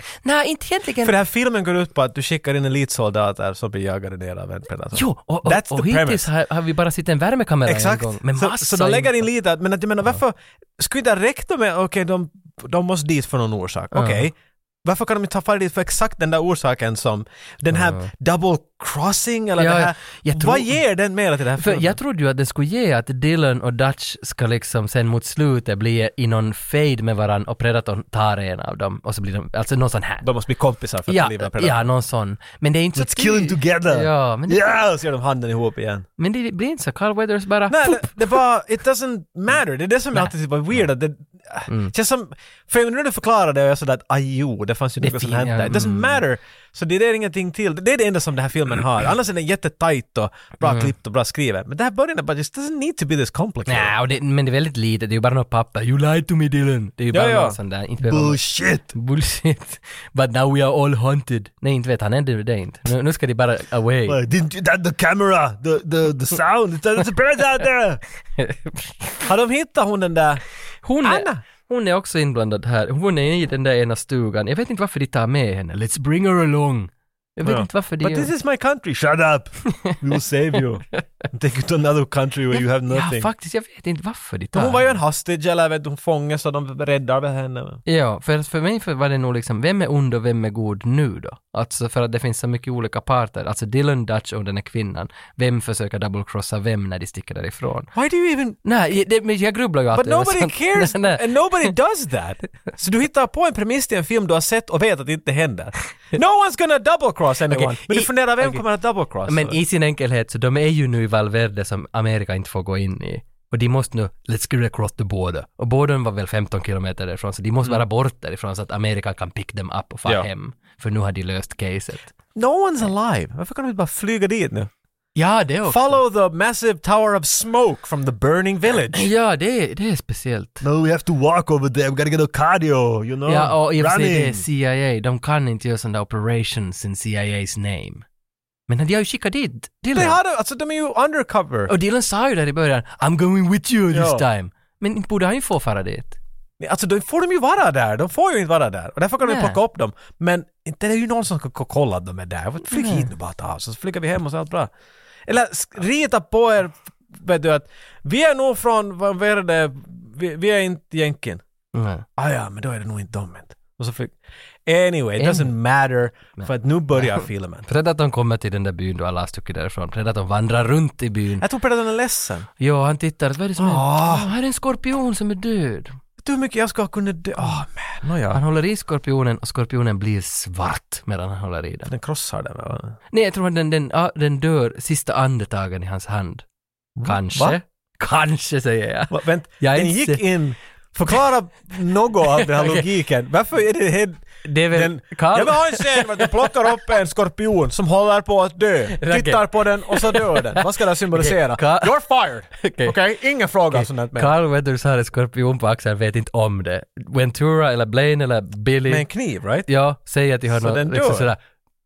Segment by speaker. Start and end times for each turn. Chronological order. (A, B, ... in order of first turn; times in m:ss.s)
0:00.2-0:01.2 A
0:01.0-0:06.3 B
0:04.9-0:09.3 A
0:07.6-0:22.0 B
0:13.9-0:14.3 A
0:17.7-0:18.1 A
0:19.6-0:20.8 A
0:21.6-0:30.2 A
0:30.2-0:31.8 B
0:31.1-0:34.8 A
0:32.9-0:36.1 B
0:36.2-0:38.2 A
0:37.7-0:53.9 B
0:45.0-0:46.2 A
0:50.6-0:50.9 A
0:53.6-1:04.2 A
0:57.1-0:58.9 B
1:04.1-1:08.0 B
1:08.4-1:09.2 A
1:09.2-1:10.4 B
1:10.8-1:18.3 A
1:11.0-1:11.4 B
1:17.4-1:23.3 B
1:22.9-1:25.0 A
1:24.5-1:27.8 B
1:27.8-1:37.9 A
1:37.9-1:38.6 B
1:38.6-1:41.7 A
1:39.9-1:49.6 B
1:47.5-1:48.6 A
1:49.2-2:02.1 A
2:02.3-2:04.7 B
2:05.1-2:06.0 A
2:05.7-2:09.1 B
2:08.9-2:10.6 A
2:10.6-2:14.4 B
2:13.2-2:18.0 A
2:18.7-2:20.2 A
2:19.9-2:21.7 B
2:21.7-2:26.2 A
2:23.9-2:24.2 B
2:26.6-2:34.7 B
2:29.2-2:29.6 A
2:32.7-2:33.1 A
2:35.3-2:41.4 B
2:41.7-2:42.0 A
2:42.2-2:44.1 B
2:44.6-2:47.7 B
2:45.2-2:45.5 A
2:47.2-2:51.4 A
2:51.4-2:52.5 B
2:52.6-2:56.0 A
2:53.6-2:54.3 B
2:56.2-2:58.4 B
2:58.3-3:01.9 A
3:01.9-3:03.0 B
3:03.1-3:06.4 A
3:07.0-3:07.6 B
3:07.0-3:10.2 A
3:09.1-3:24.3 B
3:12.4-3:12.9 A
3:14.4-3:16.3 A
3:19.0-3:21.9 A
3:22.6-3:23.0 A
3:23.7-3:29.0 A
3:28.8-3:29.7 B
3:29.7-3:31.4 A
3:30.5-3:31.3 B